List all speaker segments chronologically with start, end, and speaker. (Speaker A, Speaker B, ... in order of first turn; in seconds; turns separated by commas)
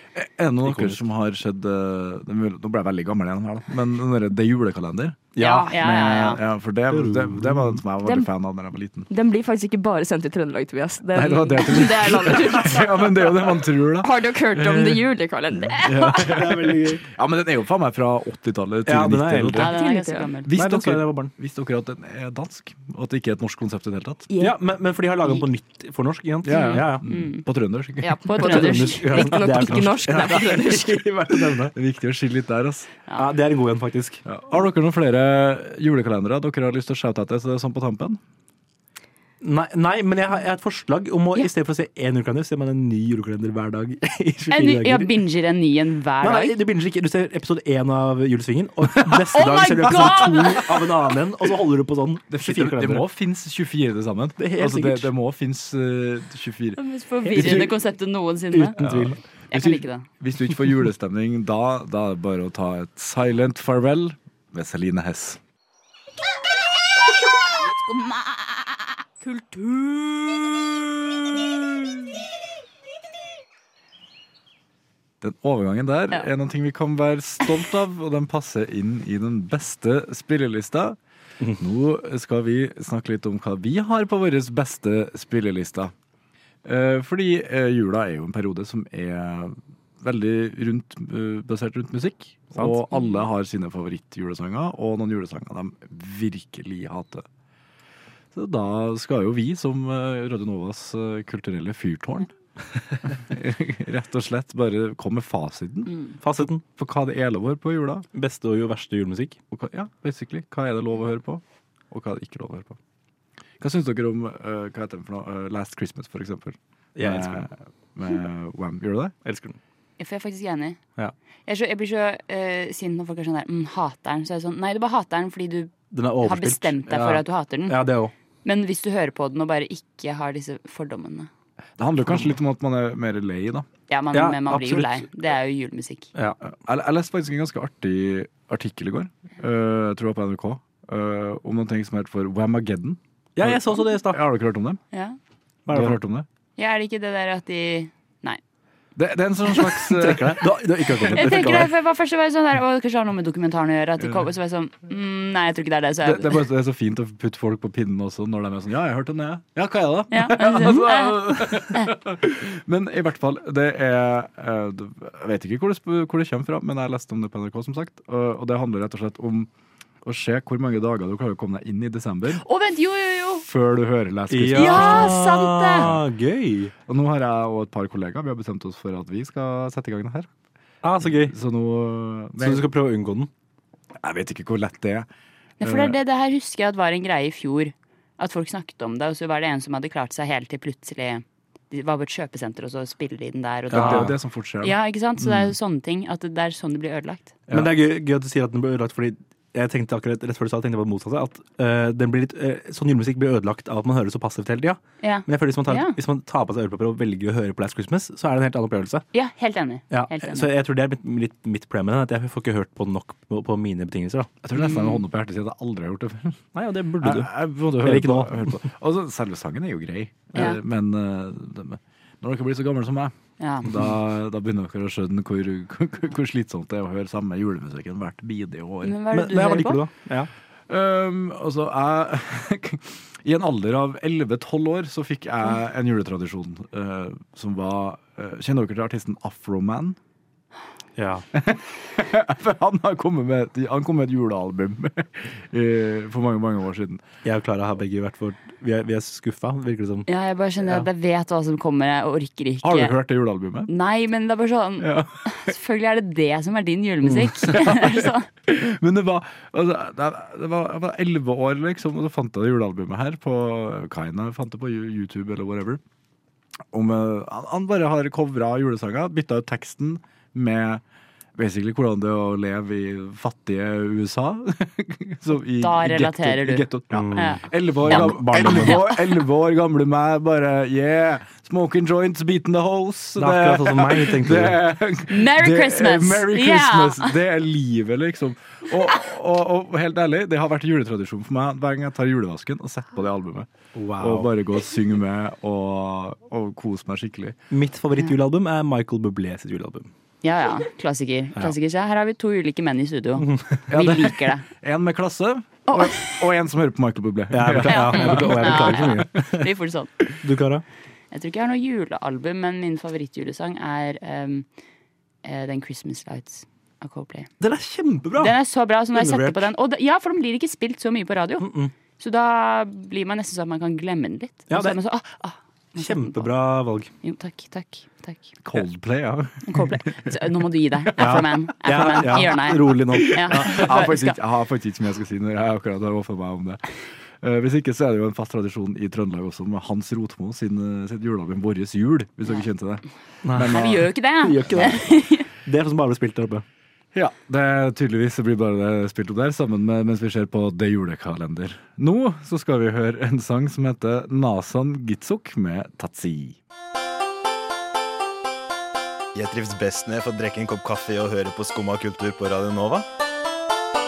Speaker A: 0.1-9.1, Speaker B: 0.6-1.0, Speaker B: 5.3-6.1, Speaker C: 5.4-6.4, Speaker B: 6.9-7.8, Speaker D: 8.0-8.3, Speaker D: 9.1-16.4, Speaker A: 11.1-19.7, Speaker B: 16.2-17.0, Speaker B: 18.9-19.7, Speaker C: 19.6-20.5, Speaker D: 19.6-20.3, Speaker A: 20.4-24.3, Speaker B: 20.5-21.3, Speaker D: 24.3-24.6, Speaker B: 24.4-27.1, Speaker A: 26.4-28.2, Speaker C: 26.5-27.4, Speaker D: 28.0-31.0, Speaker C: 28.3-29.3, Speaker B: 28.4-31.7, Speaker A: 30.3-32.9, Speaker B: 33.1-34.2, Speaker A: 34.2-38.2, Speaker B: 39.4-45.1, Speaker C: 44.5-46.6, Speaker B: 46.2-53.1, Speaker C: 49.3-50.8, Speaker A: 49.9-50.2, Speaker A: 52.3-56.8, Speaker B: 54.4-55.1, Speaker C: 56.8-58.8, Speaker B: 57.2-57.7, Speaker A: 57.3-57.7, Speaker B: 58.5-59.2, Speaker A: 58.8-65.4, Speaker C: 59.5-60.1, Speaker C: 67.5-68.6, Speaker C: 69.2-70.5, Speaker A: 75.2-81.0, Speaker A: 81.6-85.9, Speaker A: 86.7-97.3, Speaker A: 98.3-102.3, Speaker A: 103.0-108.1, Speaker C: 105.9-106.2, Speaker B: 106.2-106.6, Speaker B: 108.1-109.4, Speaker A: 109.5-112.8, Speaker A: 113.6-119.1, Speaker B: 117.0-117.5, Speaker B: 119.2-119.6, Speaker C: 120.0-120.8, Speaker C: 121.5-127.8, Speaker B: 125.9-128.1, Speaker C: 128.4-131.3, Speaker A: 131.8-133.7, Speaker C: 133.9-136.1, Speaker B: 134.1-135.1, Speaker A: 136.4-144.8, Speaker B: 143.4-144.2, Speaker C: 144.9-145.2, Speaker B: 145.7-146.0, Speaker A: 145.7-146.3, Speaker C: 146.6-148.4, Speaker A: 149.0-151.6, Speaker B: 149.8-151.7, Speaker C: 151.1-156.4, Speaker A: 156.0-169.5, Speaker C: 160.1-161.9, Speaker A: 170.0-172.4, Speaker C: 172.4-173.4, Speaker A: 173.4-175.2, Speaker B: 174.3-176.7, Speaker C: 174.5-175.9, Speaker A: 176.9-180.3, Speaker B: 180.8-181.3, Speaker A: 181.0-182.7, Speaker B: 182.4-183.3, Speaker A: 184.0-185.1, Speaker C: 185.6-197.4, Speaker A: 185.6-186.0, Speaker A: 193.7-195.6, Speaker B: 193.7-194.1, Speaker A: 197.5-197.7, Speaker B: 197.5-209.1, Speaker C: 205.0-206.0, Speaker C: 209.1-210.5, Speaker B: 209.9-214.3, Speaker A: 214.4-216.4, Speaker C: 214.5-215.0, Speaker B: 216.5-218.7, Speaker A: 217.0-229.0, Speaker C: 223.4-223.8, Speaker C: 228.8-229.8, Speaker B: 229.1-230.3, Speaker A: 230.7-240.0, Speaker B: 241.0-241.2, Speaker A: 241.3-247.0, Speaker B: 247.2-250.1, Speaker C: 250.1-252.9, Speaker A: 252.6-253.7, Speaker C: 253.7-258.3, Speaker A: 254.8-255.5, Speaker A: 257.5-265.8, Speaker A: 266.7-270.8, Speaker A: 271.4-297.4, Speaker C: 275.6-279.0, Speaker B: 276.9-278.8, Speaker B: 283.2-284.6, Speaker C: 285.1-287.1, Speaker B: 293.8-294.3, Speaker B: 297.5-299.9, Speaker C: 300.2-304.4, Speaker B: 303.2-303.7, Speaker A: 303.7-309.0, Speaker B: 307.3-309.5, Speaker C: 307.7-310.1, Speaker B: 310.2-310.6, Speaker C: 311.1-314.5, Speaker C: 315.2-317.3, Speaker B: 317.4-318.4, Speaker C: 318.2-326.3, Speaker B: 318.9-319.5, Speaker B: 321.4-321.7, Speaker B: 324.5-324.8, Speaker B: 325.8-326.9, Speaker C: 327.0-328.4, Speaker A: 328.4-330.2, Speaker C: 329.4-334.2, Speaker B: 331.0-333.8, Speaker A: 333.1-336.6, Speaker A: 337.2-344.8, Speaker B: 343.2-346.4, Speaker C: 343.4-345.3, Speaker A: 346.9-356.4, Speaker E: 359.1-362.9